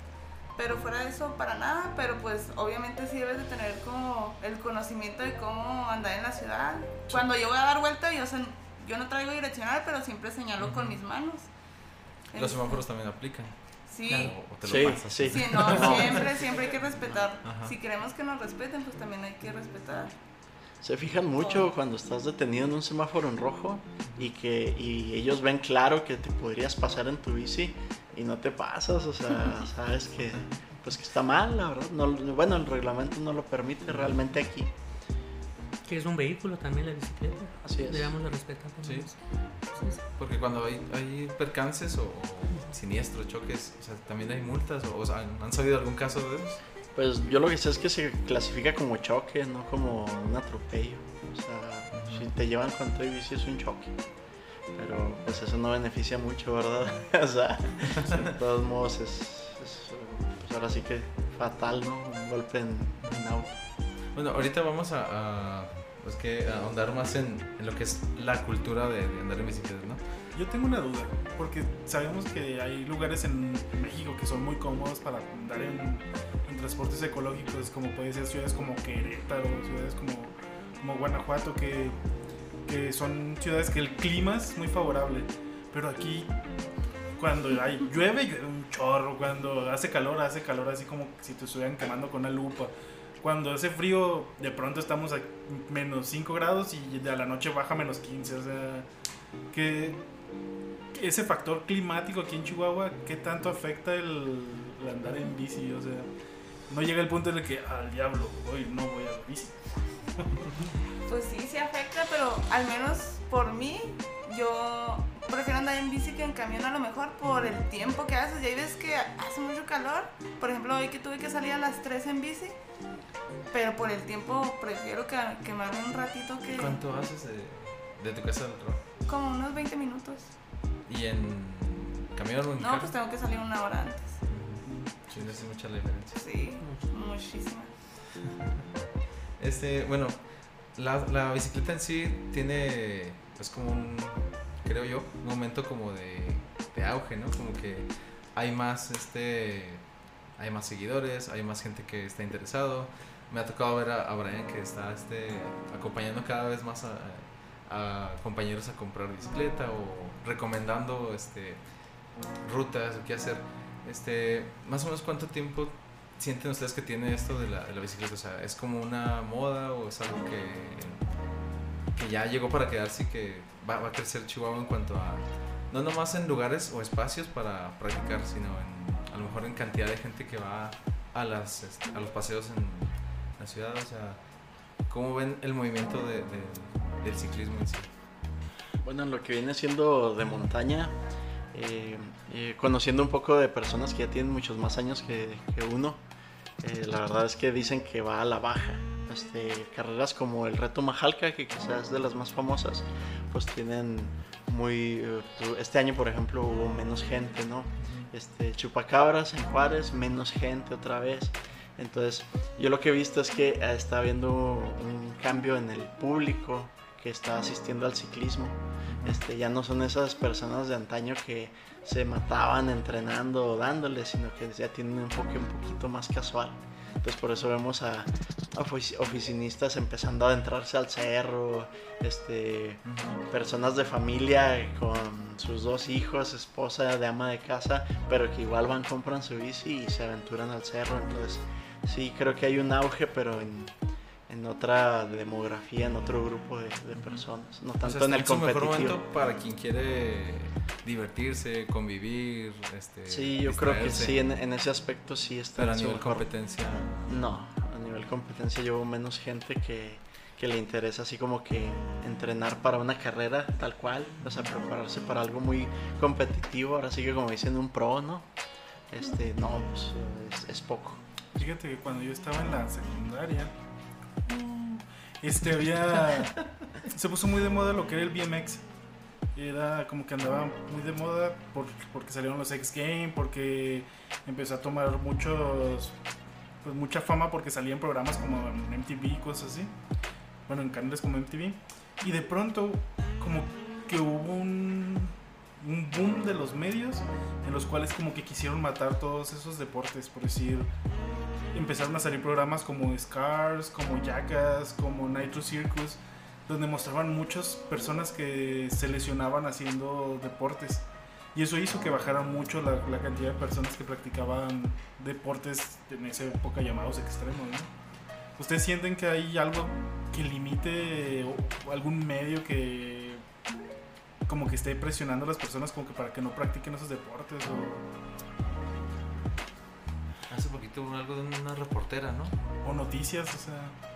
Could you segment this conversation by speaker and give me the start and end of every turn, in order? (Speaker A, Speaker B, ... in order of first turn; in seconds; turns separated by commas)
Speaker A: 0.6-11.5, Speaker B: 10.6-11.0, Speaker A: 12.3-12.8, Speaker B: 12.3-16.2, Speaker A: 13.9-14.3, Speaker C: 14.1-14.3, Speaker D: 14.6-16.2, Speaker A: 15.3-20.1, Speaker B: 17.4-17.8, Speaker D: 20.8-34.7, Speaker A: 21.4-21.7, Speaker C: 35.9-40.0, Speaker D: 37.6-38.2, Speaker B: 38.8-46.6, Speaker D: 47.0-54.0, Speaker B: 51.9-52.3, Speaker D: 54.7-63.5, Speaker B: 58.0-58.3, Speaker B: 63.0-63.3, Speaker B: 64.1-70.0, Speaker E: 70.3-82.0, Speaker E: 82.7-86.3, Speaker E: 87.2-98.9, Speaker E: 99.5-100.0, Speaker E: 100.9-106.1, Speaker E: 106.7-109.6, Speaker A: 111.1-122.6, Speaker A: 123.5-126.8, Speaker B: 126.5-128.8, Speaker A: 129.1-130.3, Speaker B: 130.9-132.9, Speaker A: 132.6-134.2, Speaker B: 134.3-136.3, Speaker E: 134.6-135.5, Speaker A: 136.2-137.7, Speaker C: 136.6-136.9, Speaker B: 138.2-138.5, Speaker B: 139.4-161.7, Speaker B: 162.4-171.0, Speaker B: 171.9-184.2, Speaker B: 184.9-187.9, Speaker D: 188.8-191.0, Speaker D: 191.5-196.0, Speaker D: 196.6-243.7, Speaker B: 207.8-208.1, Speaker B: 218.9-219.2, Speaker B: 232.8-233.2, Speaker D: 244.3-249.0, Speaker B: 247.0-247.2, Speaker B: 247.8-254.2, Speaker D: 253.1-268.3, Speaker B: 255.6-257.2, Speaker D: 268.9-271.0, Speaker E: 271.4-273.5, Speaker E: 274.3-278.6, Speaker E: 279.3-286.0, Speaker E: 286.6-289.7, Speaker E: 290.5-300.7, Speaker E: 301.5-317.7, Speaker E: 318.4-323.2, Speaker E: 324.3-327.9, Speaker B: 330.3-332.4, Speaker E: 332.6-333.8